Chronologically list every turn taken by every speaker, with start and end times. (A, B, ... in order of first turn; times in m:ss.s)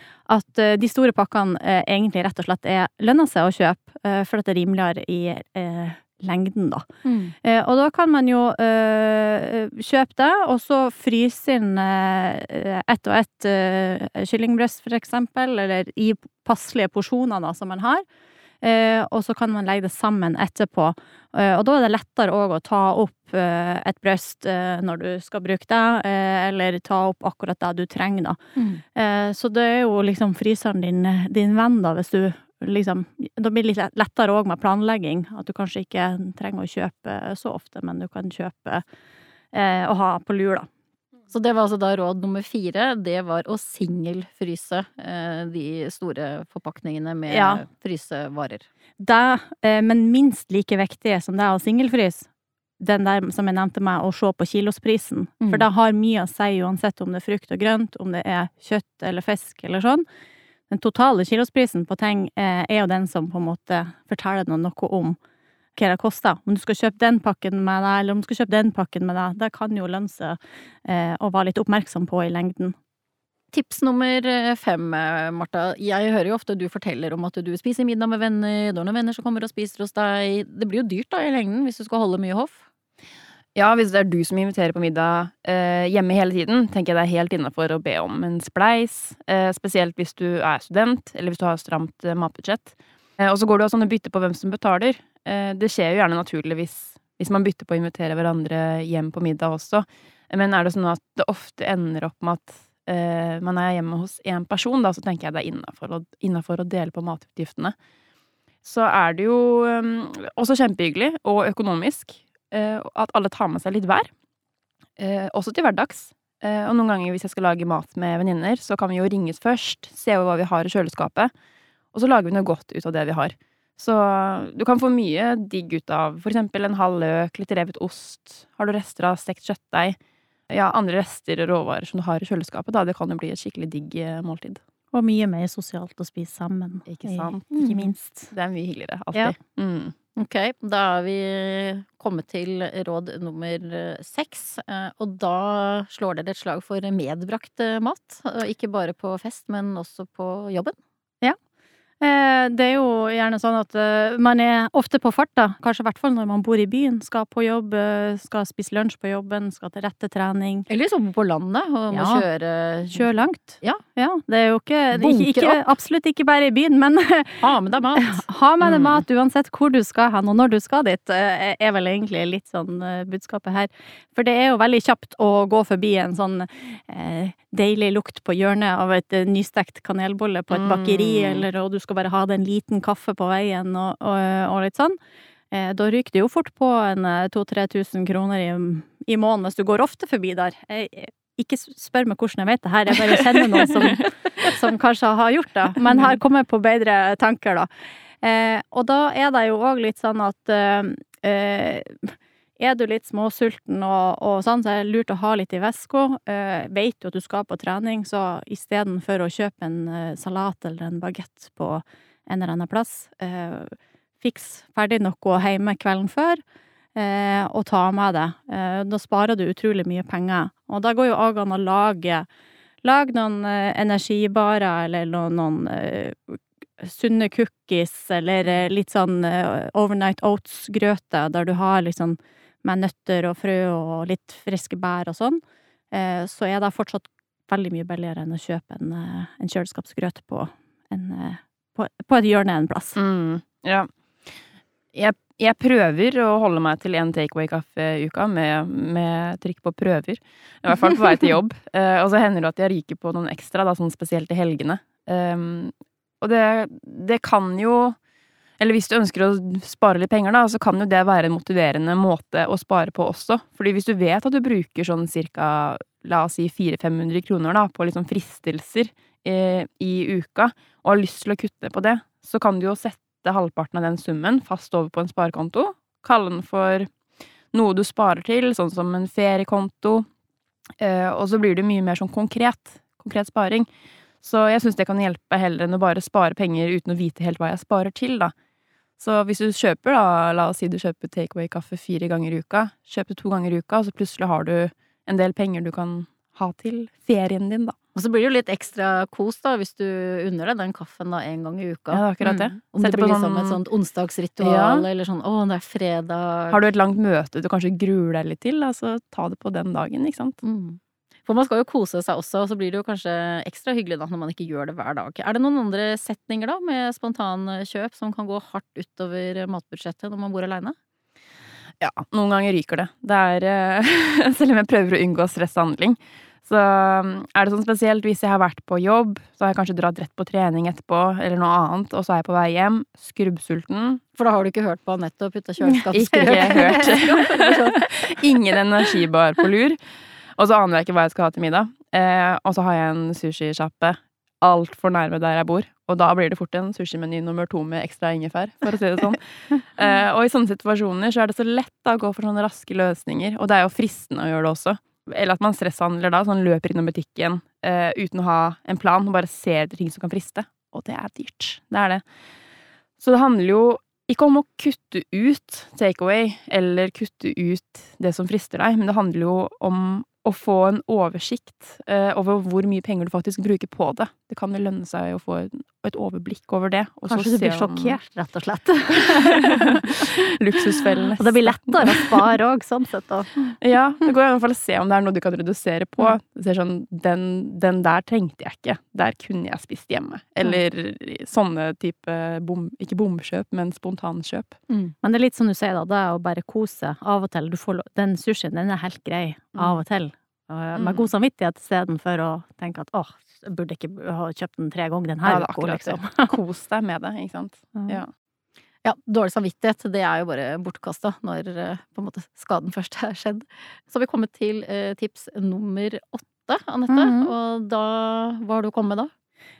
0:00.3-0:06.8 A
0:07.0-0:07.3 B
0:07.4-0:18.0 A
0:18.6-0:28.4 A
0:28.6-0:28.8 B
0:28.9-0:38.8 A
0:39.5-0:40.7 A
0:41.3-0:48.7 B
0:47.3-0:47.6 A
0:49.0-0:52.3 A
0:52.8-1:00.0 A
1:00.7-1:05.2 A
1:05.8-1:12.8 A
1:13.5-1:22.6 B
1:23.5-1:47.7 C
1:48.6-1:54.1 C
1:55.0-2:01.3 C
2:01.9-2:10.0 C
2:10.5-2:14.6 C
2:14.9-2:18.3 A
2:16.8-2:19.9 C
2:20.2-2:30.8 B
2:32.0-2:40.7 A
2:40.7-2:43.8 B
2:41.9-2:42.2 A
2:42.9-3:05.0 A
2:44.9-2:45.6 B
2:47.4-2:48.2 B
2:48.6-2:49.0 C
3:00.5-3:01.4 C
3:05.5-3:17.7 A
3:18.2-3:36.4 A
3:36.9-3:42.3 A
3:42.8-3:55.4 A
3:55.9-4:03.0 A
4:03.0-4:03.9 C
4:04.9-4:18.0 C
4:18.6-4:36.9 C
4:37.5-4:40.1 C
4:40.8-4:43.7 C
4:44.2-4:48.3 C
4:49.0-4:57.7 C
4:57.9-5:02.0 B
5:01.9-5:03.6 C
5:02.7-5:06.6 B
5:04.4-5:04.8 C
5:06.5-5:10.4 C
5:10.4-5:20.8 B
5:21.8-5:34.0 C
5:34.2-5:37.7 B
5:35.9-5:39.8 C
5:36.4-5:37.5 A
5:40.4-6:02.0 C
6:03.0-6:18.0 C
6:17.1-6:24.1 A
6:19.0-6:19.5 C
6:20.4-6:22.2 C
6:23.6-6:34.6 C
6:35.0-6:46.3 A
6:39.5-6:39.8 C
6:40.7-6:41.1 C
6:45.2-6:48.1 C
6:47.8-6:48.0 A
6:48.8-6:59.1 B
6:56.9-6:57.3 A